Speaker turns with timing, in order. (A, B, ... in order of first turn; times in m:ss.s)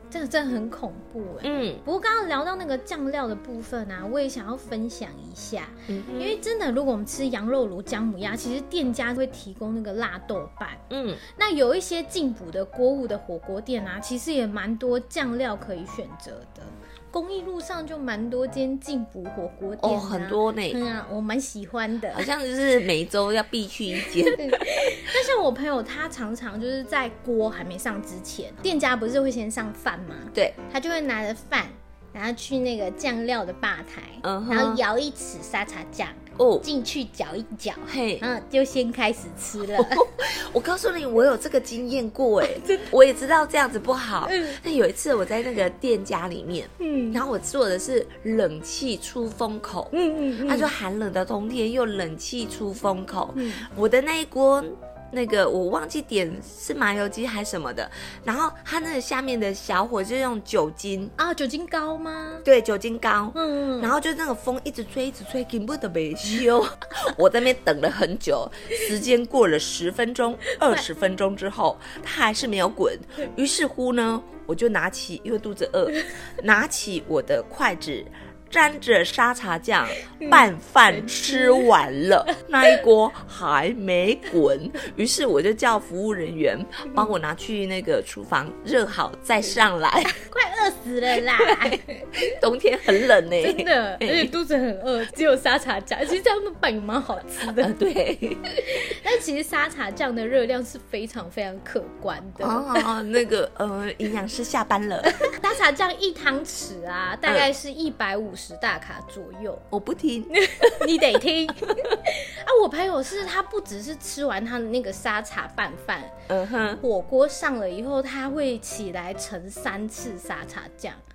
0:00.1-0:22.3 A
0:01.4-0:01.8 B
0:05.9-0:06.4 B
0:10.9-0:11.2 B
0:19.8-0:20.8 B
0:22.1-0:24.7 B
0:24.3-0:40.0 A
0:34.2-0:34.8 B
0:36.4-0:36.7 B
0:37.9-0:38.2 B
0:39.8-1:01.1 B
0:42.4-0:42.9 A
0:44.2-0:44.6 A
0:46.8-0:47.2 A
0:49.9-0:50.7 A
0:53.3-0:53.7 A
1:01.2-1:02.4 A
1:02.4-1:30.2 B
1:03.3-1:03.9 A
1:20.2-1:21.7 A
1:30.2-1:32.1 A
1:31.4-1:34.3 B
1:33.4-1:37.7 A
1:37.5-1:38.8 B
1:38.7-1:42.9 A
1:42.4-1:45.3 B
1:45.1-1:49.6 A
1:49.7-1:51.2 B
1:50.3-1:56.2 A
1:56.3-1:56.8 B
1:56.8-2:01.0 A